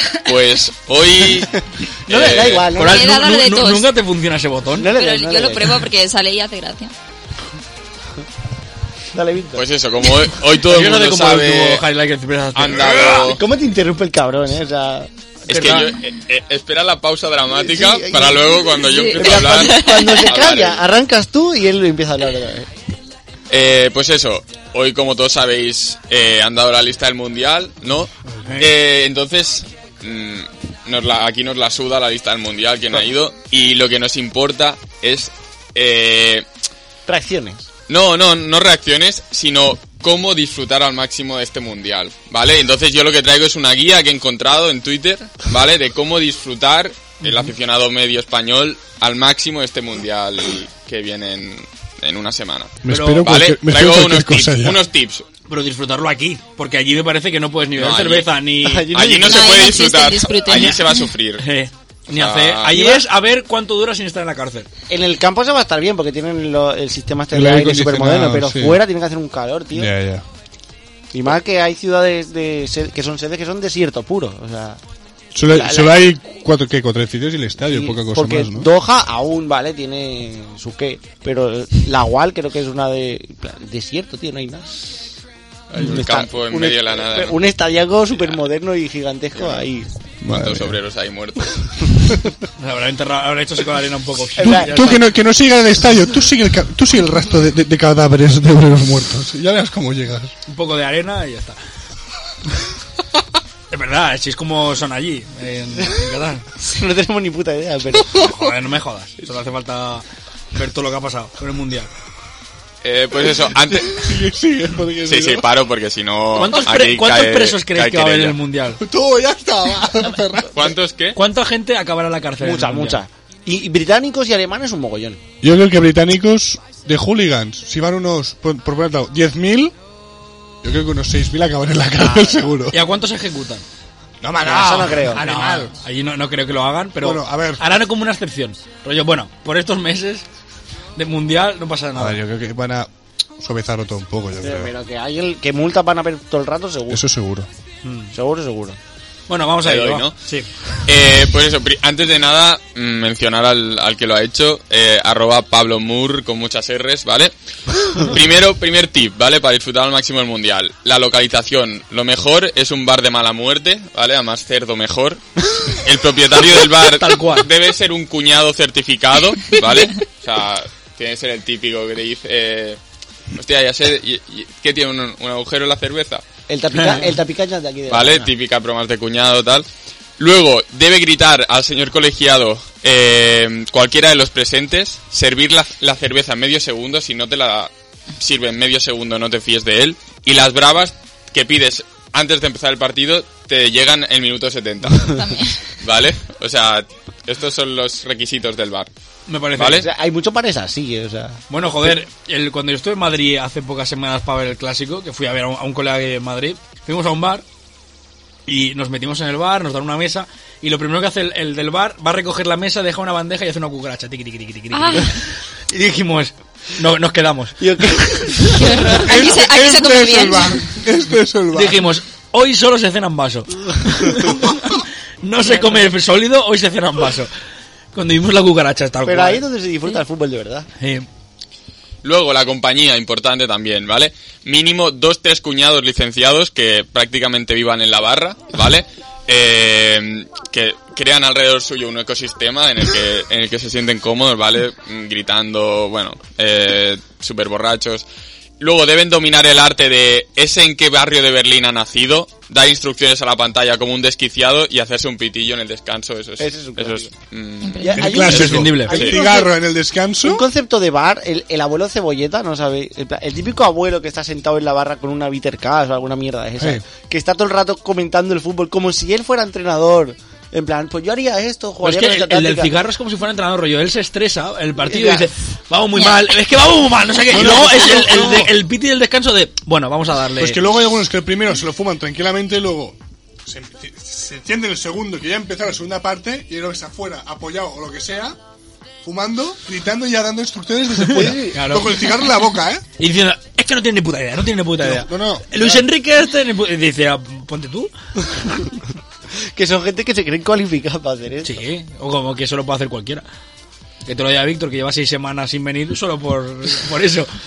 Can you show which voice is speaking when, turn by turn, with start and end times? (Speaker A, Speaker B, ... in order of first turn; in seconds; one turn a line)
Speaker A: 0.2-2.7
Speaker B: 2.1-3.2
Speaker C: 2.1-4.9
Speaker D: 2.8-3.9
Speaker B: 4.8-5.8
Speaker D: 4.9-6.9
Speaker B: 9.1-9.6
Speaker A: 9.6-11.8
Speaker C: 10.7-13.3
Speaker A: 12.6-13.4
Speaker B: 13.3-15.8
Speaker A: 15.5-20.8
Speaker C: 15.5-15.9
Speaker B: 17.5-22.7
Speaker D: 18.8-20.3
Speaker A: 23.5-36.5
Speaker C: 28.5-28.7
Speaker B: 37.1-37.6
Speaker A: 37.9-55.2
Speaker C: 47.2-47.5
Speaker E: 52.8-54.8
Speaker C: 52.9-53.2
Speaker C: 55.5-58.9
Speaker A: 57.8-58.3
Speaker B: 58.6-59.8
Speaker A: 58.9-61.5
Speaker D: 59.2-61.1
Speaker C: 61.4-64.7
Speaker A: 62.1-63.0
Speaker B: 64.9-69.9
Speaker E: 67.3-68.8
Speaker E: 69.7-70.2
Speaker B: 71.1-74.8
Speaker E: 75.3-78.7
Speaker B: 75.5-76.0
Speaker B: 77.7-84.7
Speaker A: 85.7-87.4
Speaker B: 85.8-89.9
Speaker A: 89.3-89.7
Speaker E: 90.2-90.8
Speaker A: 90.3-91.9
Speaker C: 92.6-95.0
Speaker B: 94.3-95.0
Speaker E: 94.4-100.3
Speaker C: 100.5-101.6
Speaker C: 103.7-106.5
Speaker B: 106.6-108.3
Speaker C: 108.1-111.9
Speaker A: 112.8-114.1
Speaker E: 113.5-115.5
Speaker A: 115.1-118.4
Speaker C: 116.4-118.8
Speaker E: 118.8-120.8
Speaker A: 120.5-121.2
Speaker C: 121.2-123.0
Speaker B: 122.4-125.2
Speaker E: 125.4-129.7
Speaker E: 130.6-132.8
Speaker B: 132.0-132.4
Speaker C: 132.7-133.6
Speaker E: 134.2-135.7
Speaker B: 134.4-135.2
Speaker C: 135.2-140.3
Speaker E: 137.0-137.6
Speaker C: 141.0-142.2
Speaker E: 141.9-144.7
Speaker B: 144.4-147.0
Speaker E: 146.9-147.5
Speaker C: 147.8-148.1
Speaker B: 148.1-148.8
Speaker C: 149.3-150.5
Speaker A: 149.6-150.1
Speaker A: 150.8-157.3
Speaker A: 157.9-172.8
Speaker C: 166.6-167.5
Speaker A: 173.3-176.2
Speaker B: 176.5-178.3
Speaker C: 176.7-177.1
Speaker A: 177.9-179.7
Speaker A: 180.2-195.2
Speaker D: 195.1-195.6
Speaker A: 195.8-198.9
Speaker C: 199.3-199.8
Speaker A: 199.6-199.9
Speaker B: 199.7-201.9
Speaker C: 201.5-207.4
Speaker C: 208.5-219.1
Speaker D: 214.7-215.2
Speaker B: 217.6-218.8
Speaker D: 218.6-220.6
Speaker E: 218.9-221.8
Speaker C: 221.5-227.3
Speaker B: 225.5-225.9
Speaker C: 227.9-229.4
Speaker B: 229.1-230.7
Speaker C: 230.8-231.1
Speaker A: 232.0-248.1
Speaker A: 248.6-259.2
Speaker B: 256.4-257.1
Speaker D: 257.6-258.1
Speaker B: 257.8-259.6
Speaker E: 258.0-260.4
Speaker C: 258.1-259.0
Speaker B: 260.2-272.8
Speaker C: 271.8-280.6
Speaker B: 274.8-275.3
Speaker D: 275.9-276.2
Speaker E: 277.3-278.5
Speaker E: 280.4-288.4
Speaker E: 289.0-292.8
Speaker C: 291.1-291.9
Speaker B: 291.1-291.6
Speaker C: 293.0-297.9
Speaker E: 294.8-295.9
Speaker B: 299.6-301.6
Speaker C: 301.4-303.2
Speaker C: 304.1-307.3